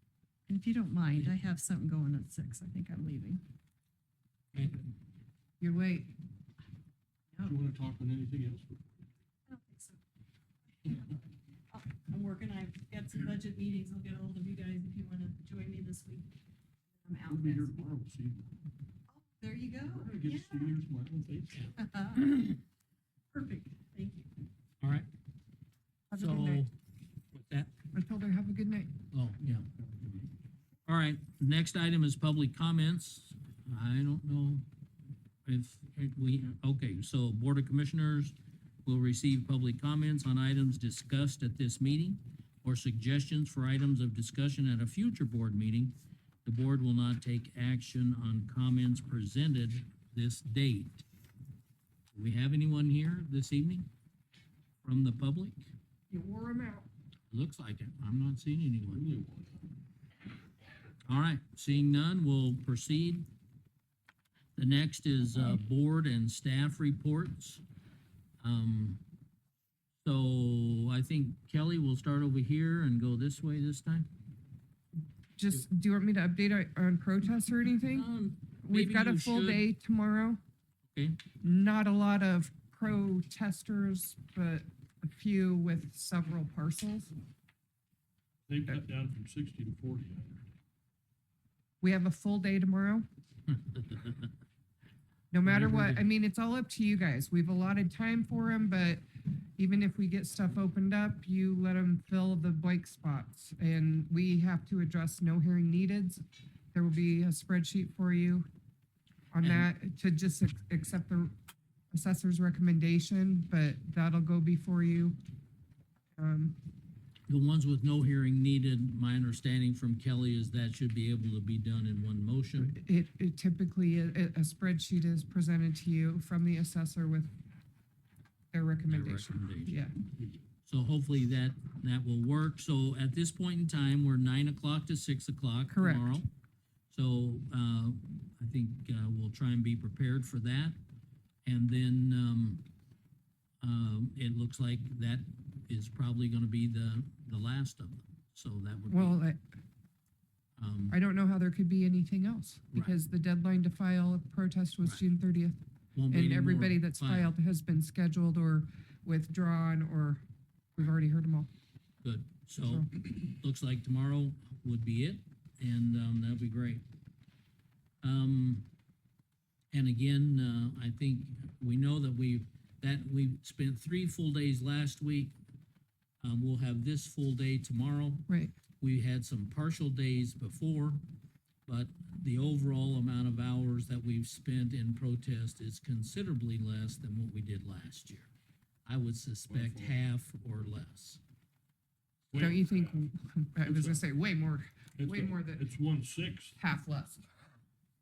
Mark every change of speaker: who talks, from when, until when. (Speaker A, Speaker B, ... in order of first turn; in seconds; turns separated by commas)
Speaker A: 0.5-3.4, Speaker B: 4.5-4.9, Speaker C: 5.6-6.1, Speaker D: 7.4-9.1, Speaker A: 9.5-10.0, Speaker A: 10.8-11.2, Speaker A: 11.7-16.3, Speaker A: 17.0-17.7, Speaker D: 17.3-18.5, Speaker A: 19.1-20.7, Speaker D: 19.9-21.8, Speaker A: 21.7-22.5, Speaker A: 23.3-24.3, Speaker B: 24.8-25.1, Speaker C: 26.1-26.6, Speaker B: 26.1-26.7, Speaker B: 27.3-27.7, Speaker C: 27.9-28.9, Speaker B: 29.1-29.7, Speaker B: 30.9-34.6, Speaker B: 35.4-45.9, Speaker B: 46.4-51.0, Speaker B: 52.1-53.9, Speaker B: 54.8-55.7, Speaker C: 56.1-56.9, Speaker B: 57.3-59.0, Speaker D: 58.9-59.7, Speaker B: 61.0-63.2, Speaker B: 64.5-67.6, Speaker B: 68.4-69.0, Speaker B: 70.0-74.1, Speaker C: 75.4-78.1, Speaker B: 77.8-79.6, Speaker C: 78.6-80.4, Speaker B: 80.9-81.2, Speaker C: 81.4-87.1, Speaker D: 88.5-90.4, Speaker C: 91.8-93.0, Speaker B: 93.7-94.2, Speaker C: 95.3-99.0, Speaker B: 95.4-96.0, Speaker C: 99.6-106.2, Speaker C: 106.7-108.5, Speaker C: 109.3-111.3, Speaker B: 109.4-109.7, Speaker C: 111.9-115.2, Speaker C: 116.2-116.6, Speaker B: 117.3-122.7, Speaker C: 122.6-127.3, Speaker C: 128.5-129.9, Speaker B: 128.9-129.8, Speaker B: 130.6-136.3, Speaker C: 135.7-136.2, Speaker B: 136.9-140.8, Speaker B: 141.4-142.6, Speaker B: 143.6-149.2, Speaker C: 148.9-149.4, Speaker B: 150.6-150.9, Speaker C: 150.9-155.6, Speaker B: 155.9-157.3, Speaker C: 156.1-160.2, Speaker C: 160.8-161.5, Speaker B: 162.0-166.8, Speaker B: 168.0-168.7, Speaker B: 169.7-175.3, Speaker B: 176.2-178.3, Speaker C: 178.3-178.5, Speaker B: 178.8-181.0, Speaker B: 181.7-188.3, Speaker B: 188.8-191.2, Speaker D: 189.5-189.9, Speaker D: 192.3-193.0, Speaker C: 192.3-195.7, Speaker D: 193.6-194.0, Speaker D: 195.0-196.6, Speaker C: 196.6-197.3